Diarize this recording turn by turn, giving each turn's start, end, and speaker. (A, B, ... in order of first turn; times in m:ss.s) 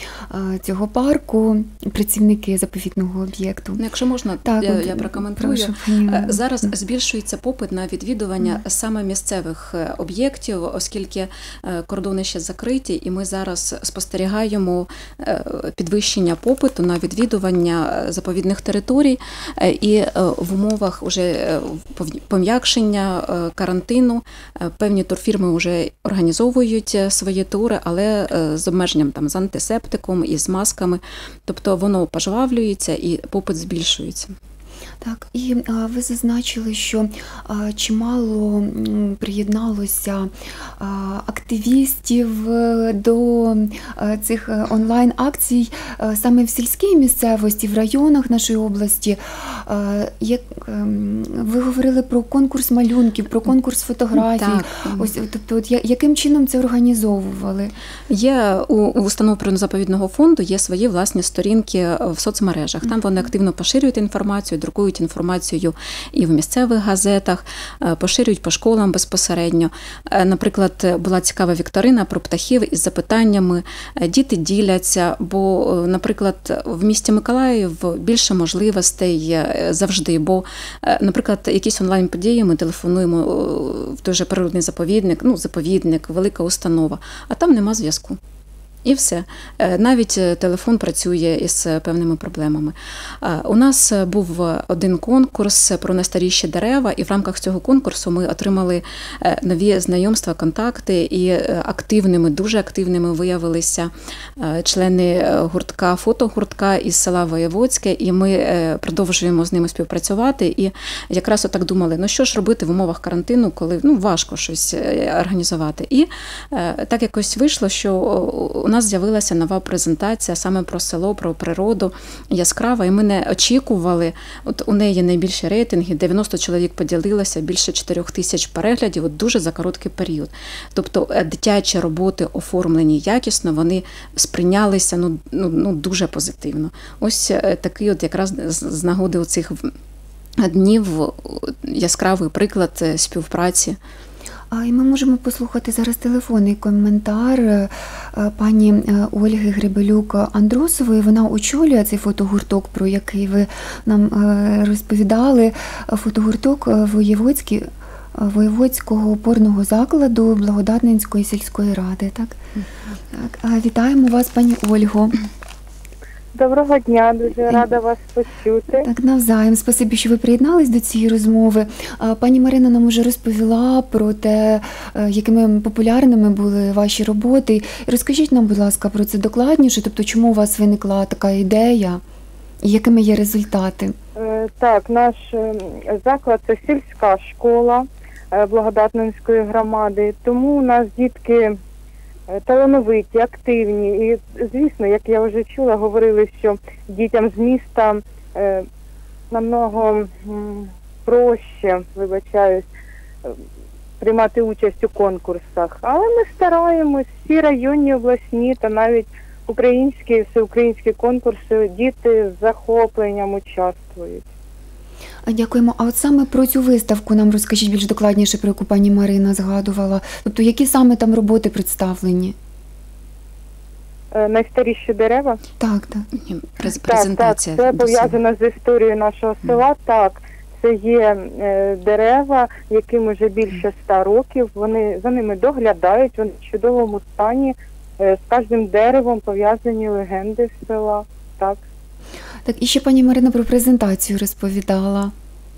0:00.3-0:03.8 A
0:03.8-0:34.3 B
0:04.4-0:06.4 A
0:35.0-0:57.8 A
0:54.2-0:55.1 B
0:58.1-1:28.2 B
1:28.8-2:19.7 B
2:20.4-2:23.8 B
2:24.5-2:42.4 A
2:43.1-2:45.2 A
2:46.3-2:48.9 C
2:48.7-3:02.0 A
3:02.6-3:04.0 A
3:04.2-3:11.6 C
3:12.3-3:18.7 C
3:19.3-3:22.7 C
3:24.0-3:34.2 C
3:35.3-3:42.4 A
3:44.1-3:45.4 C
3:45.6-3:46.1 A
3:46.2-3:48.2 B
3:46.8-4:01.6 C
4:02.5-4:05.1 A